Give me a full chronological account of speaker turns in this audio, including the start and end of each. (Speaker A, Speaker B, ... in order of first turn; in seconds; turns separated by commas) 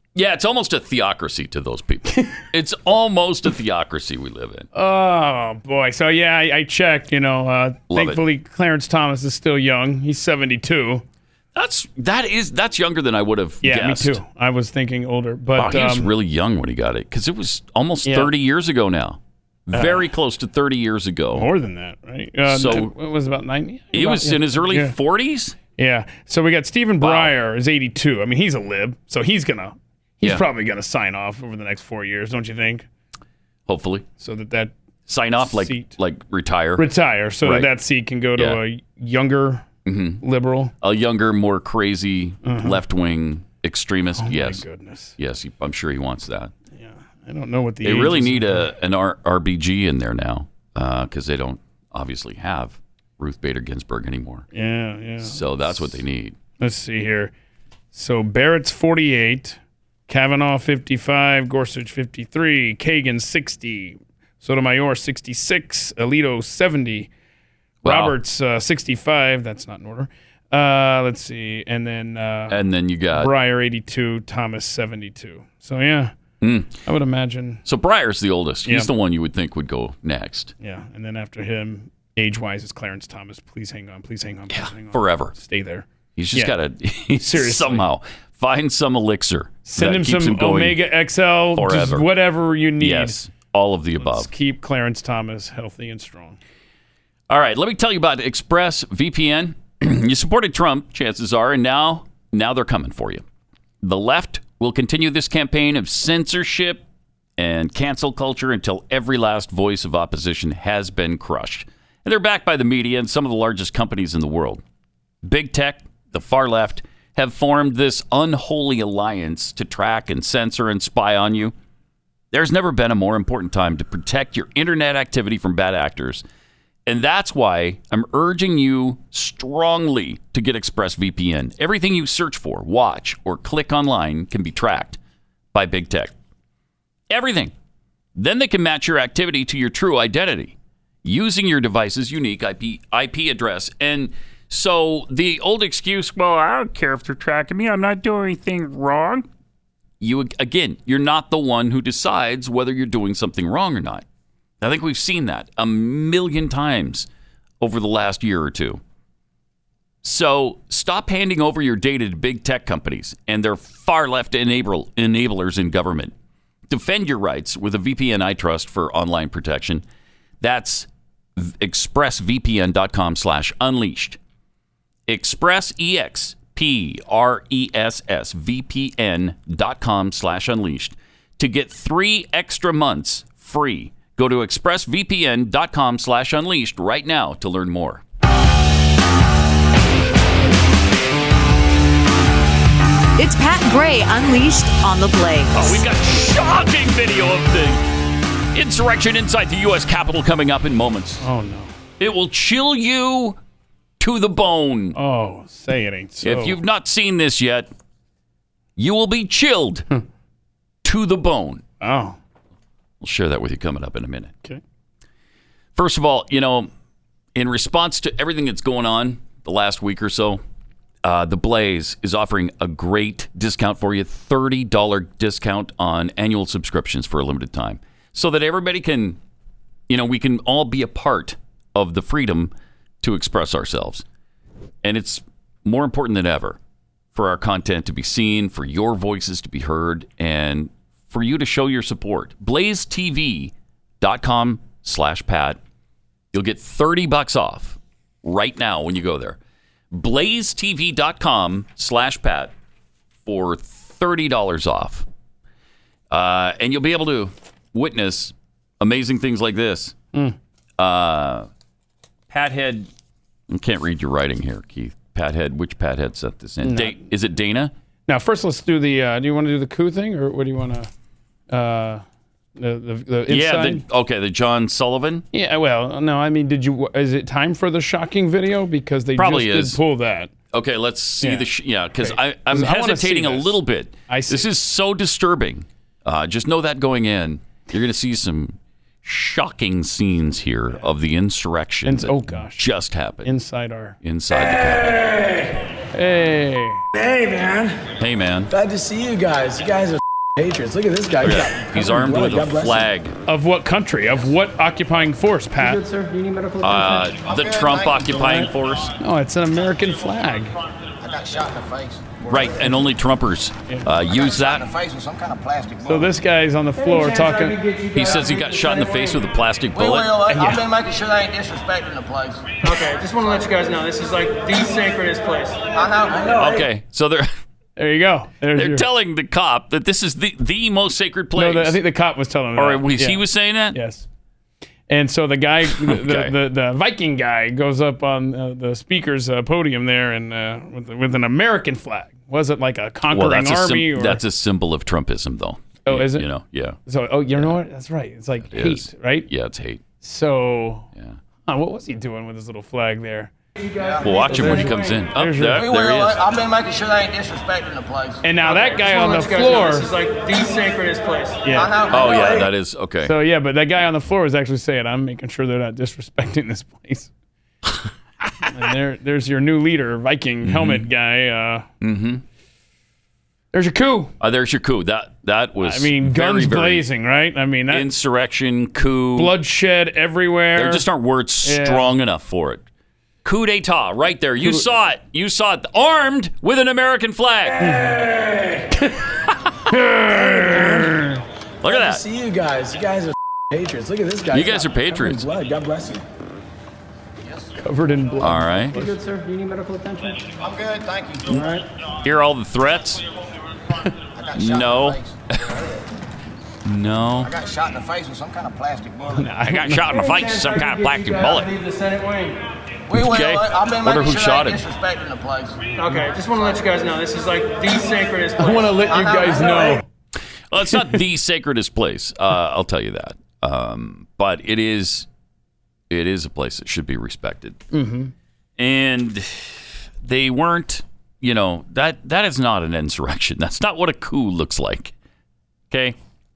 Speaker A: 0.1-4.7, Speaker B: 4.7-11.0, Speaker A: 7.9-8.2, Speaker A: 11.5-14.2, Speaker B: 13.6-16.1, Speaker A: 15.6-21.5, Speaker B: 18.1-18.3, Speaker B: 19.7-20.0, Speaker B: 21.3-24.9, Speaker A: 22.4-22.9, Speaker A: 23.9-25.6, Speaker B: 25.8-32.9, Speaker A: 27.0-27.3, Speaker A: 33.7-34.0, Speaker B: 34.2-34.7, Speaker A: 35.1-36.9, Speaker B: 35.4-35.9, Speaker B: 36.8-39.6, Speaker A: 37.4-37.7, Speaker A: 39.9-40.2, Speaker B: 40.2-40.7, Speaker A: 40.8-44.6, Speaker B: 42.4-42.8, Speaker B: 44.2-45.1, Speaker A: 45.2-46.5, Speaker B: 46.7-48.7, Speaker A: 47.8-54.5, Speaker B: 54.5-55.9, Speaker A: 55.2-56.4, Speaker B: 56.6-57.3, Speaker B: 57.9-67.1, Speaker A: 67.8-68.1, Speaker B: 67.8-72.6, Speaker A: 72.5-73.3, Speaker B: 73.1-76.1, Speaker A: 76.4-76.8, Speaker B: 76.8-77.6, Speaker A: 77.6-80.5, Speaker B: 80.6-86.5, Speaker A: 84.5-85.3, Speaker A: 86.2-90.8, Speaker B: 87.2-87.8, Speaker B: 89.7-93.2, Speaker A: 91.5-92.1, Speaker A: 92.8-94.3, Speaker B: 94.0-96.4, Speaker A: 97.3-103.2, Speaker A: 103.8-106.8, Speaker A: 107.4-114.6, Speaker A: 115.2-121.5, Speaker A: 122.3-126.2, Speaker A: 126.8-135.0, Speaker A: 135.5-136.1, Speaker A: 137.1-137.5, Speaker A: 138.2-149.2, Speaker A: 150.0-154.0, Speaker A: 154.6-157.1, Speaker A: 157.6-158.8, Speaker A: 160.0-166.1, Speaker A: 166.7-169.8, Speaker A: 170.4-174.2, Speaker A: 175.1-188.0, Speaker C: 193.2-195.8, Speaker A: 195.5-197.8, Speaker A: 198.5-201.3, Speaker B: 201.2-201.7, Speaker A: 202.0-203.4, Speaker A: 204.0-204.9, Speaker B: 204.9-206.6, Speaker A: 206.2-207.7, Speaker A: 208.8-209.9, Speaker A: 210.8-211.6, Speaker B: 211.8-212.2, Speaker A: 213.0-214.3, Speaker A: 215.8-216.7, Speaker A: 217.3-220.4, Speaker A: 221.0-229.2, Speaker A: 229.9-234.0, Speaker A: 234.8-236.6, Speaker A: 237.1-245.6, Speaker A: 246.3-249.4, Speaker A: 249.9-252.5, Speaker A: 253.2-255.1, Speaker A: 256.1-259.9, Speaker A: 260.8-261.5, Speaker A: 262.3-262.9, Speaker A: 263.5-267.7, Speaker B: 266.6-267.1, Speaker B: 268.1-270.9, Speaker B: 271.5-272.0, Speaker B: 272.6-273.8, Speaker A: 273.3-275.2, Speaker B: 275.3-280.3, Speaker A: 279.2-279.8, Speaker A: 280.5-293.3, Speaker B: 281.2-281.5, Speaker B: 282.0-283.6, Speaker B: 284.1-284.5, Speaker B: 291.9-292.6, Speaker B: 293.2-293.9, Speaker A: 294.0-295.4, Speaker B: 295.9-296.8, Speaker D: 297.0-297.8, Speaker A: 298.0-298.5, Speaker D: 298.5-302.9, Speaker A: 301.2-303.1, Speaker B: 303.3-305.9, Speaker A: 306.6-308.9, Speaker E: 307.2-308.4, Speaker B: 308.2-308.5, Speaker B: 309.0-310.5, Speaker E: 311.0-312.5, Speaker A: 312.2-314.6, Speaker E: 314.1-316.1, Speaker B: 315.8-317.6, Speaker A: 317.9-320.4, Speaker E: 319.7-326.5, Speaker B: 320.3-320.6, Speaker A: 326.3-327.3, Speaker B: 327.8-328.8, Speaker A: 328.6-331.8, Speaker B: 331.4-334.1, Speaker A: 332.6-333.8, Speaker B: 334.9-344.2, Speaker A: 335.7-336.3, Speaker A: 343.1-346.8, Speaker B: 345.9-346.3, Speaker B: 346.9-349.3, Speaker A: 348.5-349.8, Speaker B: 350.0-350.9, Speaker B: 351.5-353.3, Speaker E: 353.8-354.1, Speaker A: 354.0-356.2, Speaker B: 354.1-355.6, Speaker E: 355.5-362.5, Speaker B: 358.2-359.9, Speaker B: 361.4-362.0, Speaker A: 361.9-363.1, Speaker B: 363.0-367.1, Speaker B: 368.5-371.6, Speaker A: 370.4-370.9, Speaker A: 371.8-372.2, Speaker B: 373.5-374.1, Speaker A: 374.2-376.8, Speaker B: 375.6-377.9, Speaker A: 377.7-379.3, Speaker B: 379.1-380.8, Speaker A: 380.5-382.6, Speaker B: 381.4-381.9, Speaker A: 383.2-387.7, Speaker B: 384.4-384.6, Speaker B: 387.6-388.0, Speaker B: 389.7-391.2, Speaker A: 391.6-392.0, Speaker D: 391.7-396.0, Speaker A: 394.3-395.3, Speaker B: 397.6-399.2, Speaker A: 398.2-398.8, Speaker B: 399.8-400.1, Speaker E: 400.3-401.4, Speaker B: 401.3-401.6, Speaker A: 402.0-403.0, Speaker E: 404.1-405.1, Speaker A: 404.3-405.6, Speaker A: 406.6-407.3, Speaker E: 407.2-409.2, Speaker B: 409.1-409.9, Speaker A: 409.4-411.5, Speaker E: 412.9-419.8, Speaker A: 412.9-414.6, Speaker B: 415.8-416.1, Speaker B: 418.4-419.8, Speaker A: 420.5-425.1, Speaker B: 420.7-421.0, Speaker A: 425.9-427.6, Speaker B: 427.7-428.1, Speaker A: 428.6-434.9, Speaker A: 435.7-435.9